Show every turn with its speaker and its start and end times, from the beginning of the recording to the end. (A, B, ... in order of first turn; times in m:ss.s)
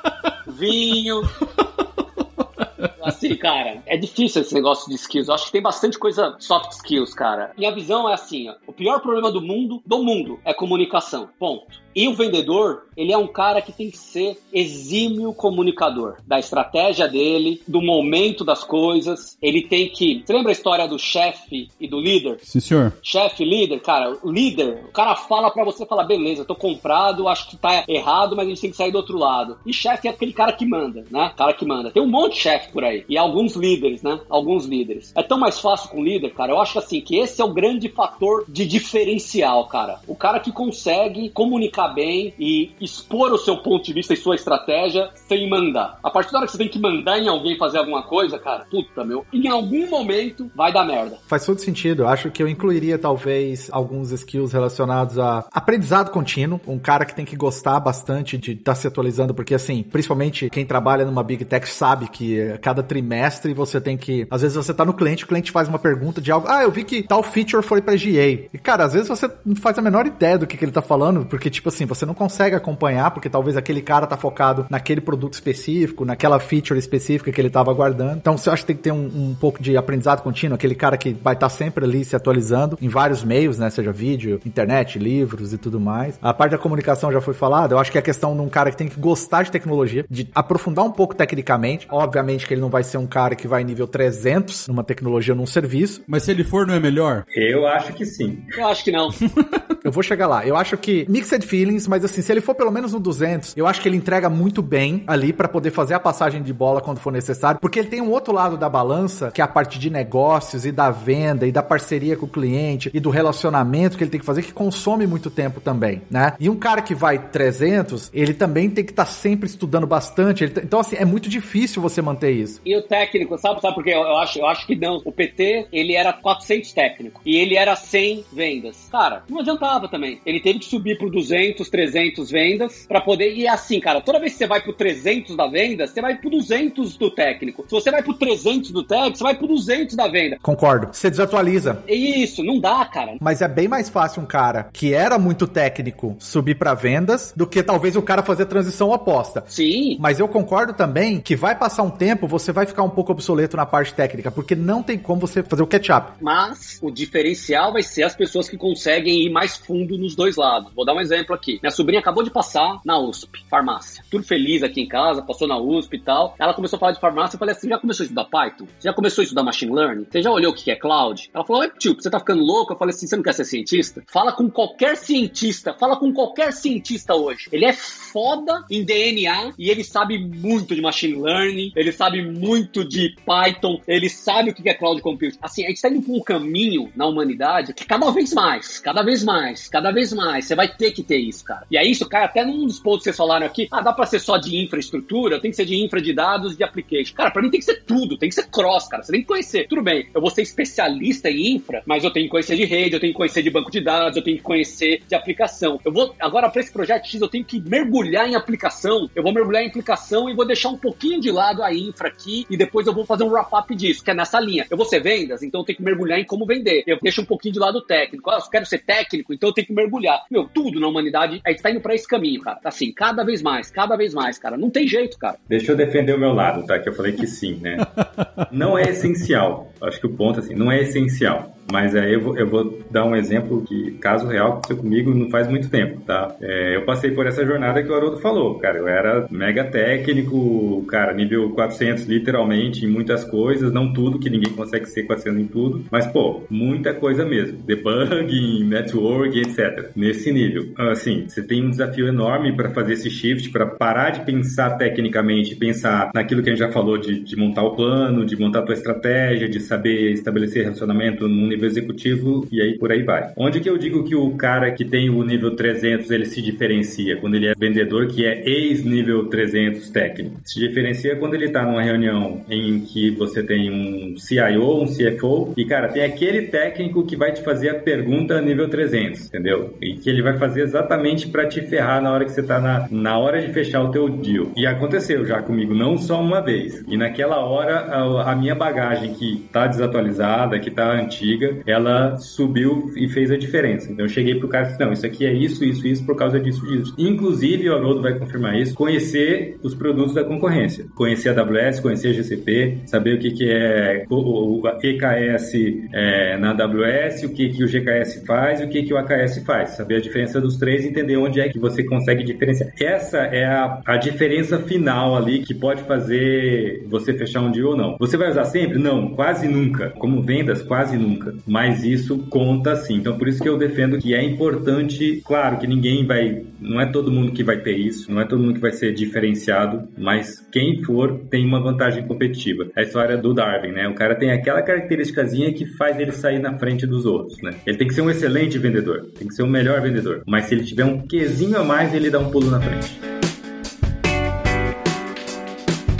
0:00.5-0:01.3 A
0:03.0-0:22.4 A
0:22.4-0:22.9 B
0:23.0-0:51.2 A
0:51.3-1:36.0 C
1:36.1-1:37.2 B
1:37.3-1:38.5 D
1:38.6-1:39.1 A
1:39.2-1:39.6 B
1:39.8-2:02.6 C
2:02.6-2:20.4 A
2:20.4-2:21.8 C
2:21.9-2:23.2 A
2:23.2-2:36.1 C
2:29.5-2:30.0 A
2:36.2-3:45.4 A
3:45.5-3:47.8 D
3:47.9-3:48.4 B
3:48.5-5:43.0 D